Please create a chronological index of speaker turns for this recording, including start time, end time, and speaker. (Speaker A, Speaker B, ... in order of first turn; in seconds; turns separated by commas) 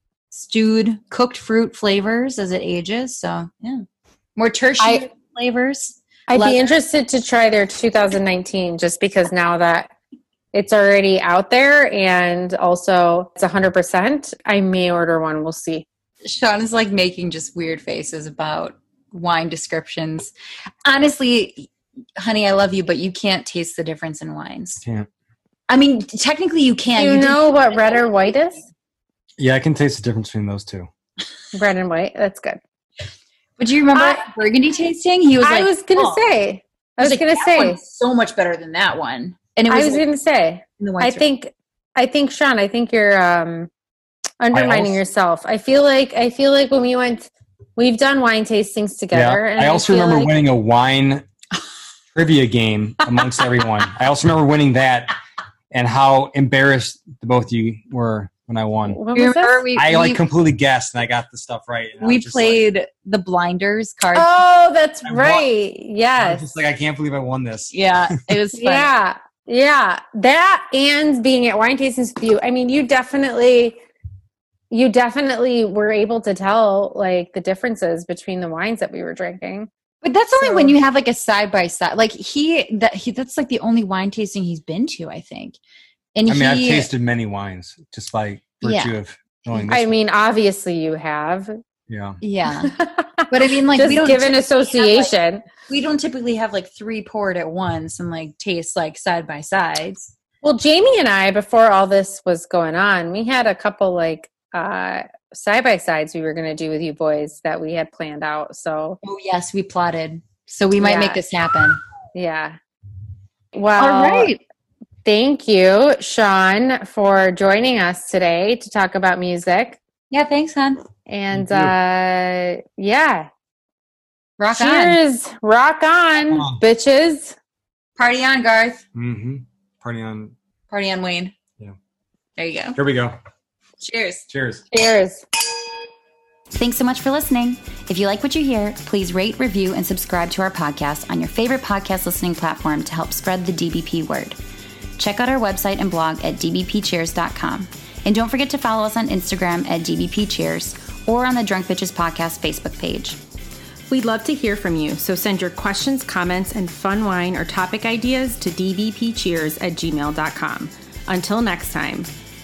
Speaker A: 0.3-3.8, Speaker A: 4.4-6.6, Speaker B: 4.8-5.0, Speaker B: 6.3-9.9, Speaker B: 10.5-15.8, Speaker A: 16.2-20.3, Speaker A: 20.9-24.8, Speaker C: 24.8-25.1, Speaker A: 25.7-28.3, Speaker B: 27.0-28.6, Speaker C: 29.4-30.9, Speaker B: 31.5-32.6, Speaker A: 33.6-36.2, Speaker B: 33.9-34.2, Speaker B: 35.4-37.8, Speaker A: 37.0-40.0, Speaker B: 39.7-43.7, Speaker A: 40.8-41.2, Speaker B: 44.4-50.3, Speaker C: 44.5-45.0, Speaker C: 49.1-51.2, Speaker C: 52.1-55.1, Speaker C: 55.7-59.0, Speaker B: 58.9-59.6, Speaker A: 59.1-60.2, Speaker C: 59.8-62.6, Speaker A: 62.0-64.3, Speaker B: 64.1-66.4, Speaker C: 65.0-65.5, Speaker C: 66.2-67.7, Speaker A: 67.7-68.9, Speaker B: 68.5-73.8, Speaker B: 74.7-79.7, Speaker A: 80.0-85.6, Speaker B: 80.4-80.8, Speaker A: 86.1-86.9, Speaker C: 86.3-89.9, Speaker A: 88.6-88.9, Speaker A: 89.5-89.7, Speaker B: 89.7-91.6, Speaker C: 91.9-92.2, Speaker A: 92.2-92.8, Speaker B: 92.6-95.5, Speaker A: 93.3-95.1, Speaker A: 95.7-100.1, Speaker B: 100.4-109.0, Speaker A: 109.0-111.8, Speaker B: 110.8-111.2, Speaker B: 112.1-112.6, Speaker B: 113.5-114.3, Speaker A: 113.8-114.4, Speaker B: 115.0-119.8, Speaker A: 120.1-120.8, Speaker B: 121.1-123.3, Speaker C: 121.3-121.7, Speaker A: 124.4-125.0, Speaker B: 124.5-127.3, Speaker C: 126.3-126.6, Speaker A: 128.0-128.8, Speaker C: 128.9-130.3, Speaker A: 130.7-131.3, Speaker A: 132.4-132.8, Speaker C: 132.7-133.2, Speaker A: 133.8-134.2, Speaker C: 134.3-134.6, Speaker B: 134.7-135.2, Speaker A: 136.5-144.4, Speaker A: 145.0-153.2, Speaker D: 153.9-162.1